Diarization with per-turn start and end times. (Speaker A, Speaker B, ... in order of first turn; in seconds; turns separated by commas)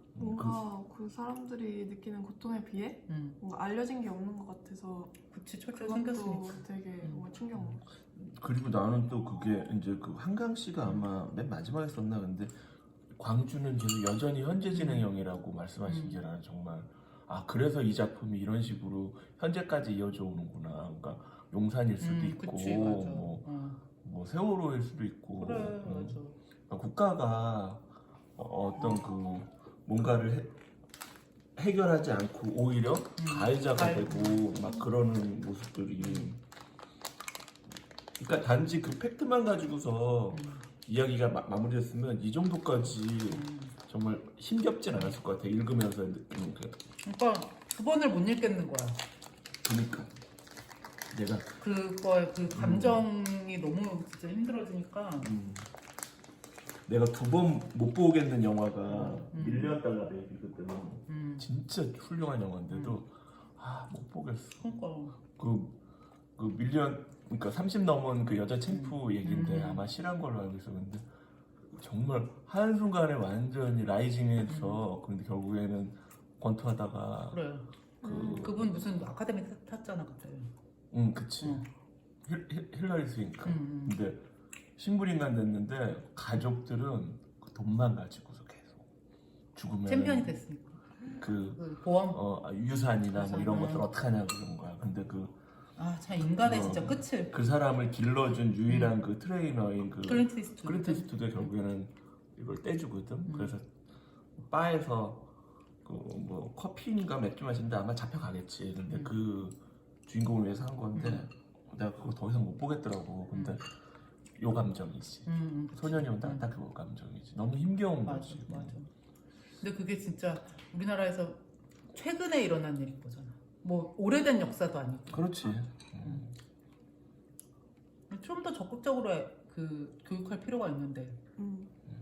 Speaker A: 0.1-0.6, Speaker B: 0.2-5.1, Speaker C: 3.1-3.4, Speaker C: 5.3-7.7, Speaker B: 5.7-7.8, Speaker A: 8.1-12.6, Speaker A: 13.2-23.5, Speaker C: 14.7-15.1, Speaker C: 15.9-16.2, Speaker C: 22.0-23.8, Speaker A: 24.0-30.6, Speaker C: 25.4-26.4, Speaker A: 31.6-36.4, Speaker C: 33.2-34.5, Speaker C: 36.0-36.3, Speaker A: 38.2-46.8, Speaker C: 40.3-40.7, Speaker C: 43.3-43.8, Speaker C: 47.0-49.0, Speaker A: 49.6-50.1, Speaker A: 51.1-51.6, Speaker C: 51.6-55.3, Speaker A: 52.5-53.0, Speaker A: 55.2-55.7, Speaker A: 56.9-64.7, Speaker C: 58.9-59.8, Speaker C: 61.1-61.5, Speaker C: 62.7-63.0, Speaker C: 64.6-65.2, Speaker A: 65.3-65.8, Speaker A: 66.4-71.1, Speaker C: 68.7-69.9, Speaker A: 71.7-77.4, Speaker C: 74.5-74.9, Speaker C: 77.3-80.5, Speaker B: 78.0-78.4, Speaker A: 78.0-78.8, Speaker A: 80.9-81.7, Speaker C: 81.4-81.7, Speaker A: 82.2-84.2, Speaker C: 83.5-84.0, Speaker A: 84.8-88.8, Speaker A: 89.5-90.4, Speaker C: 89.9-92.2, Speaker A: 91.1-95.4, Speaker C: 93.1-93.9, Speaker C: 95.8-97.3, Speaker A: 96.4-103.7, Speaker C: 98.7-99.0, Speaker C: 100.1-101.5, Speaker C: 103.3-103.5, Speaker A: 104.4-105.3, Speaker A: 105.8-113.7, Speaker C: 111.0-111.2, Speaker C: 113.3-113.6, Speaker A: 114.4-118.8, Speaker C: 115.3-116.5, Speaker C: 118.0-118.9, Speaker C: 119.6-126.2, Speaker A: 125.1-126.3, Speaker C: 128.1-131.2, Speaker B: 131.4-131.7